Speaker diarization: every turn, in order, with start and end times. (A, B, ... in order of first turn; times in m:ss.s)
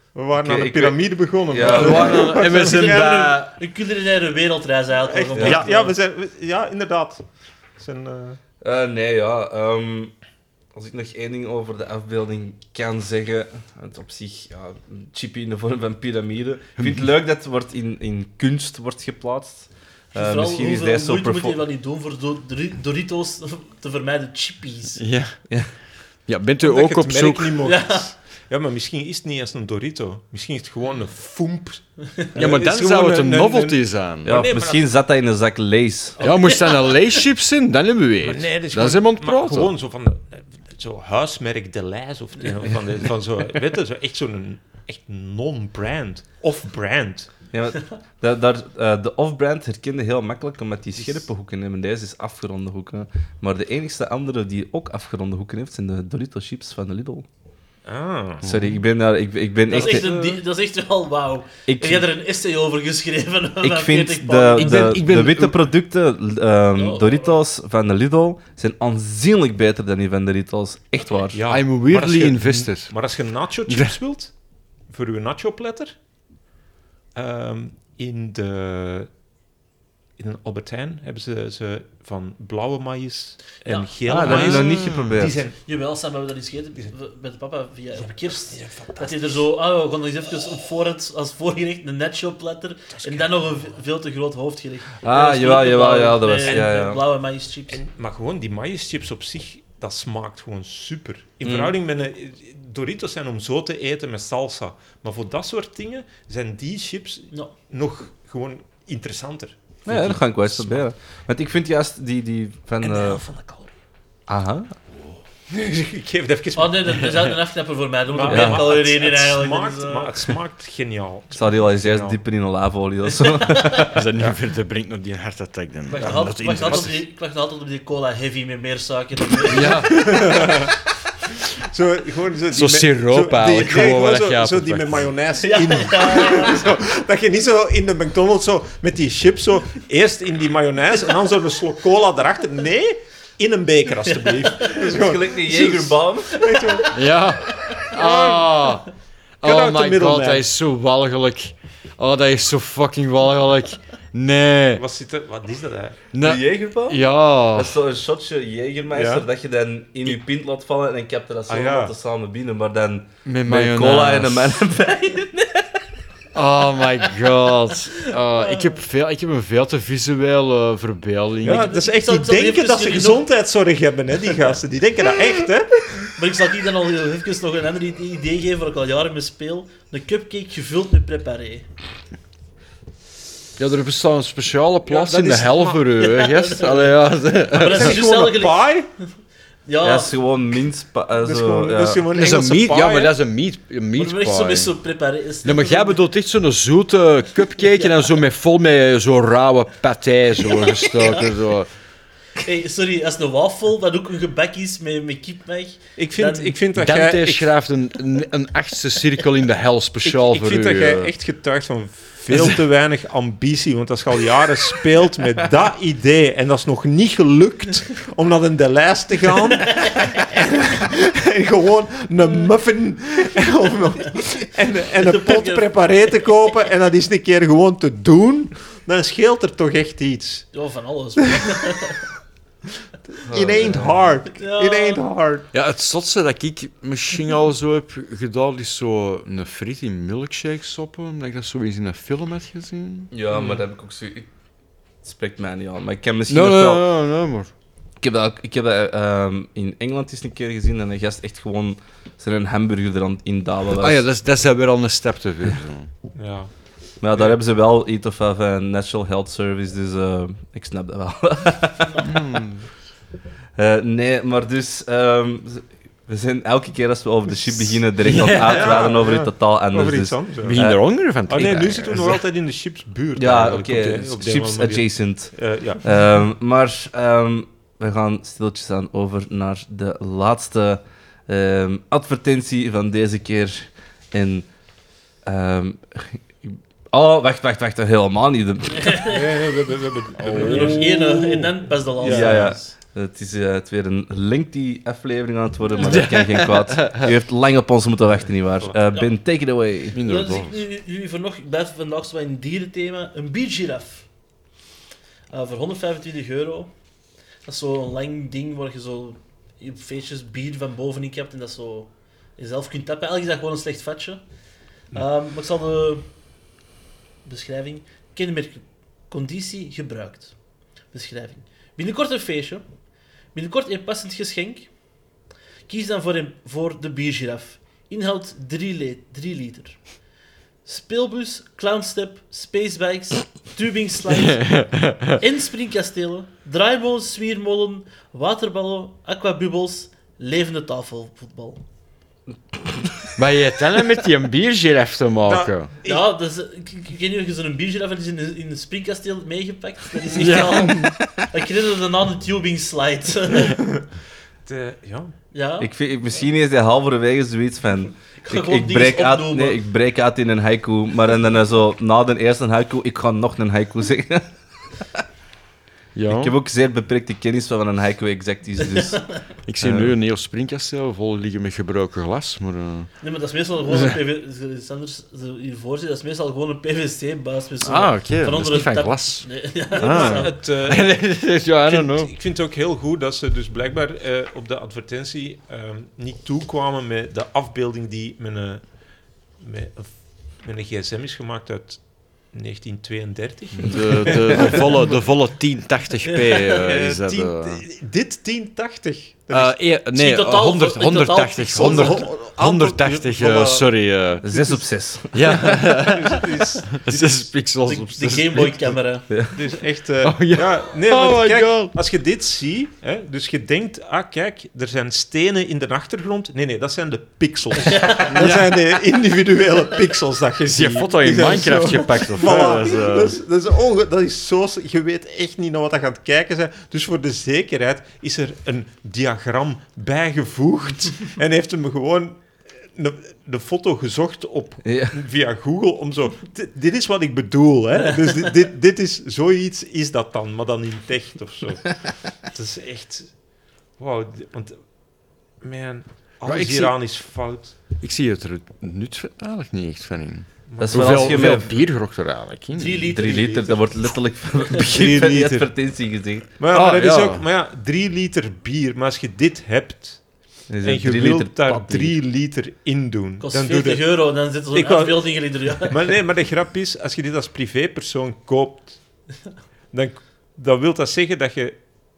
0:00.1-0:03.2 A
0:00.4-0:02.3 B
0:01.6-0:03.6 C
0:01.9-0:05.9 D
0:05.0-0:07.2 A
0:05.3-0:05.6 B
0:07.8-0:08.4 A
0:08.6-0:10.1 B
0:10.7-0:21.6 B
0:16.8-0:17.0 C
0:20.1-0:25.0 D
0:25.0-0:25.4 C
0:26.3-0:27.7 C
0:26.6-0:34.8 A
0:27.6-0:28.1 D
0:32.4-0:34.5 C
0:34.2-0:36.2 B
0:36.2-0:39.7 C
0:36.2-0:37.0 D
0:38.2-0:47.3 A
0:47.5-0:57.2 B
0:57.8-0:58.4 A
0:58.4-0:58.8 C
0:58.4-1:00.1 B
0:59.7-1:00.4 A
0:59.7-1:05.0 D
1:01.7-1:02.1 B
1:03.6-1:11.4 B
1:04.6-1:05.6 C
1:06.8-1:07.2 D
1:11.3-1:14.3 A
1:11.5-1:12.9 C
1:13.7-1:13.9 C
1:14.8-1:15.9 A
1:17.1-1:19.1 A
1:20.2-1:25.6 A
1:23.6-1:24.2 D
1:24.0-1:25.4 B
1:24.2-1:25.2 C
1:25.6-1:37.8 D
1:28.0-1:29.2 A
1:32.9-1:33.2 A
1:35.0-1:37.0 B
1:37.7-1:50.8 A
1:41.4-1:41.7 B
1:49.8-1:53.2 B
1:52.8-1:53.7 A
1:54.3-1:54.7 B
1:55.5-1:57.4 A
1:56.5-2:00.3 D
1:58.1-2:02.2 A
1:58.2-1:58.6 B
2:01.3-2:04.0 B
2:03.4-2:03.9 D
2:03.9-2:07.0 C
2:05.9-2:10.4 D
2:06.0-2:06.9 A
2:09.5-2:10.3 C
2:09.7-2:10.7 A
2:11.6-2:27.0 A
2:12.5-2:15.1 C
2:15.4-2:16.6 D
2:24.1-2:24.9 D
2:24.8-2:26.4 B
2:26.5-2:26.9 D
2:26.9-2:28.9 C
2:27.8-2:28.5 A
2:29.4-2:34.8 C
2:29.4-2:30.4 A
2:34.8-2:36.0 A
2:36.1-2:37.8 C
2:36.2-2:45.6 B
2:38.9-2:39.2 A
2:41.5-2:41.9 A
2:43.2-2:44.6 C
2:46.3-2:51.7 C
2:48.3-2:48.7 D
2:51.4-2:56.0 A
2:51.4-2:53.2 D
2:56.0-3:01.6 D
3:03.6-3:08.0 C
3:04.8-3:05.9 A
3:06.0-3:07.0 D
3:07.5-3:08.8 D
3:07.5-3:08.9 A
3:09.6-3:10.1 D
3:09.8-3:12.0 B
3:11.2-3:13.1 A
3:12.1-3:14.8 C
3:14.0-3:16.0 D
3:15.4-3:21.7 C
3:17.7-3:18.0 D
3:20.6-3:21.3 D
3:22.4-3:26.6 D
3:26.0-3:27.5 A
3:26.7-3:31.1 C
3:30.0-3:50.5 A
3:32.3-3:32.6 C
3:39.6-3:40.0 D
3:45.0-3:45.7 D
3:50.5-3:52.0 D
3:53.3-3:54.0 B
3:53.3-3:55.5 A
3:54.4-3:55.0 D
3:55.5-4:03.1 C
4:03.1-4:04.3 B
4:05.0-4:06.9 B
4:06.3-4:07.5 C
4:08.0-4:14.0 B
4:13.8-4:15.9 C
4:16.1-4:17.4 A
4:17.0-4:22.1 B
4:22.0-4:22.7 C
4:23.6-4:30.8 B
4:28.1-4:30.6 A
4:28.3-4:28.6 C
4:30.4-4:32.2 C
4:31.2-4:35.8 A
4:33.2-4:44.5 B
4:45.2-4:49.0 B
4:48.8-4:49.4 D
4:49.0-4:52.6 A
4:50.2-4:51.2 C
4:50.4-4:52.7 D
4:52.0-5:00.0 B
4:55.8-4:57.1 C
4:59.9-5:00.6 C
5:00.0-5:04.1 D
5:05.3-5:06.7 D
5:07.4-5:14.2 D
5:14.9-5:16.0 D
5:17.2-5:20.3 D
5:20.9-5:22.6 D
5:23.3-5:24.7 D
5:25.7-5:29.9 D
5:30.6-5:34.6 D
5:34.1-5:35.2 C
5:35.2-5:41.6 D
5:43.2-5:45.7 C
5:45.2-5:46.1 A
5:45.8-5:53.7 D
5:50.1-5:51.1 C
5:54.4-5:55.1 A
5:55.3-5:55.7 D
5:55.6-6:04.3 B
5:58.2-5:59.6 D
6:05.9-6:06.4 C
6:06.1-6:09.0 B
6:08.9-6:09.2 D
6:09.5-6:12.9 C
6:09.6-6:09.9 B
6:13.0-6:20.4 D
6:13.7-6:14.0 C
6:17.6-6:22.1 C
6:19.7-6:28.6 A
6:29.4-6:34.9 A
6:33.6-6:37.6 C
6:36.0-6:36.7 D
6:36.4-6:39.5 A
6:39.3-6:44.2 C
6:39.9-6:42.1 D
6:41.5-6:43.7 A
6:44.2-6:45.4 B
6:44.2-6:44.6 A
6:45.1-6:48.7 C
6:45.4-6:47.2 A
6:47.6-6:49.1 D
6:49.3-7:23.1 A
6:50.0-6:51.7 C
6:57.7-6:58.0 D
6:58.1-6:58.5 C
7:00.4-7:03.2 C
7:14.6-7:15.0 B
7:23.8-7:24.6 A
7:25.4-7:27.6 A
7:26.2-7:26.7 C
7:27.8-7:33.0 C
7:30.5-7:31.4 A
7:30.6-7:31.6 B
7:32.5-7:33.6 D
7:32.9-7:36.2 B
7:34.6-7:35.5 A
7:36.4-7:48.8 A
7:36.5-7:37.2 C
7:40.5-7:41.9 B
7:43.2-7:45.9 D
7:49.7-7:51.6 A